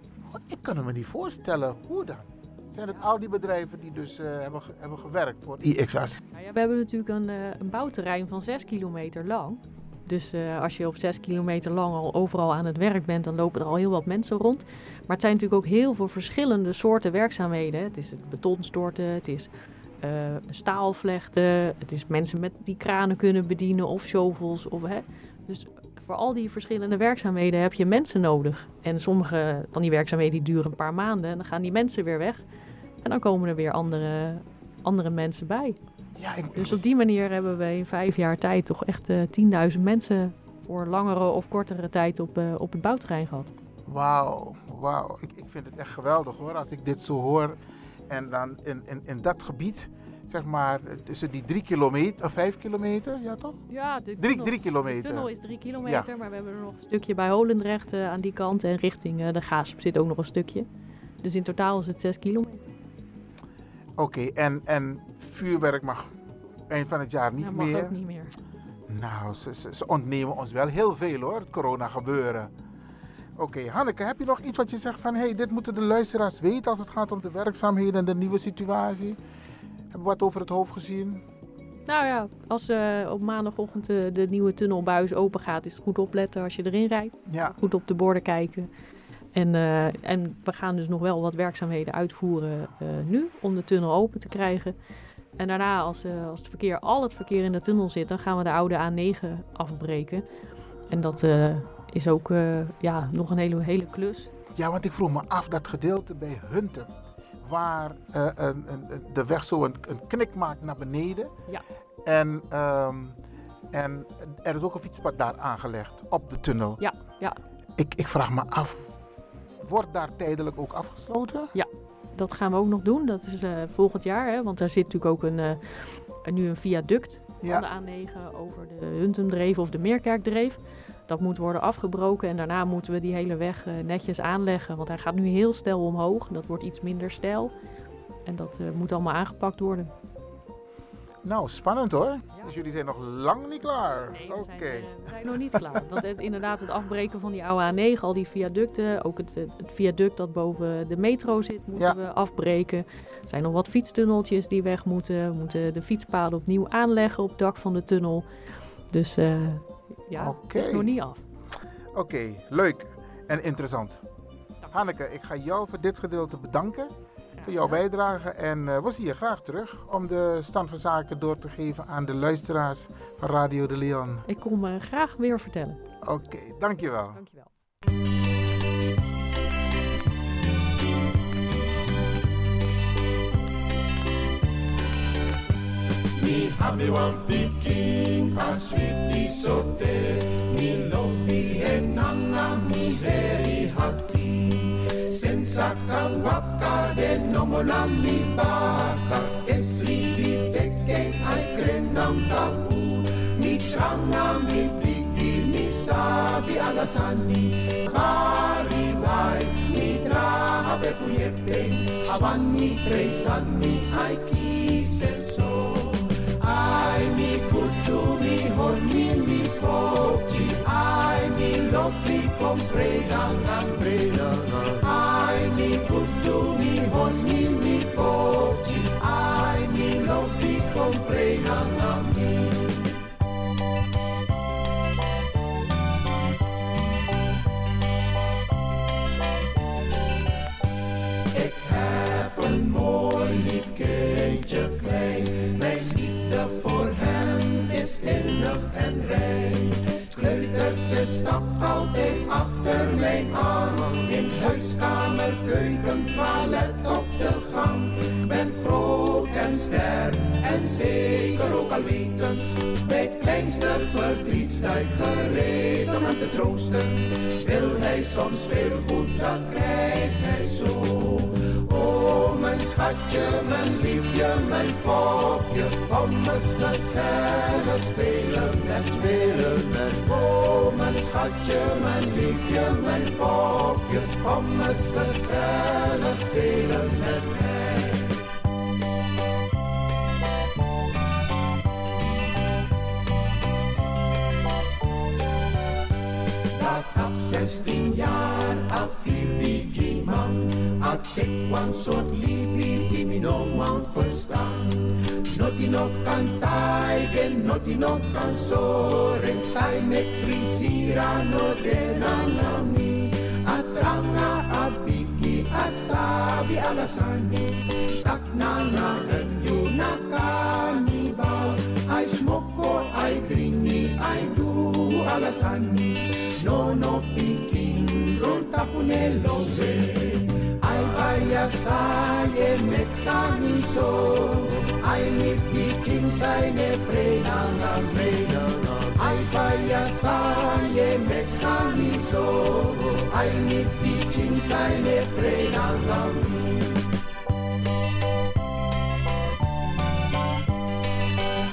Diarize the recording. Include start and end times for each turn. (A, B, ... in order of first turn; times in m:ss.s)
0:00.3-0:06.2 A
0:06.3-0:19.5 B
0:20.0-0:32.4 B
0:33.0-0:35.8 B
0:36.2-0:36.8 A
0:36.5-0:43.5 B
0:43.9-0:53.6 A
0:53.7-1:00.7 B
0:54.2-0:55.3 A
1:01.2-1:02.6 B
1:04.0-1:06.1 A
1:06.7-1:08.0 A
1:07.4-1:08.3 B
1:08.9-1:12.5 A
1:13.4-1:19.2 A
1:19.9-1:21.2 A
1:21.9-1:28.7 B
1:27.3-1:27.6 A
1:29.3-1:34.8 B
1:35.4-1:40.2 B
1:40.9-1:44.3 B
1:44.6-1:46.9 A
1:47.4-1:51.3 A
1:52.0-1:53.2 A
1:53.7-1:56.8 A
1:56.8-1:57.4 B
1:57.8-1:58.9 A
1:59.6-2:01.5 A
2:01.5-2:05.6 B
2:06.2-2:17.5 B
2:18.3-2:19.9 B
2:21.2-2:26.0 A
2:24.1-2:38.3 B
2:38.9-2:41.2 B
2:40.2-2:40.9 A
2:41.9-2:44.0 A
2:44.7-2:54.2 A
2:47.4-2:47.8 B
2:54.3-2:55.8 B
2:56.0-2:57.2 A
2:57.1-2:57.5 B
3:06.2-3:52.8 C
4:01.3-4:48.1 C
4:56.5-5:46.8 C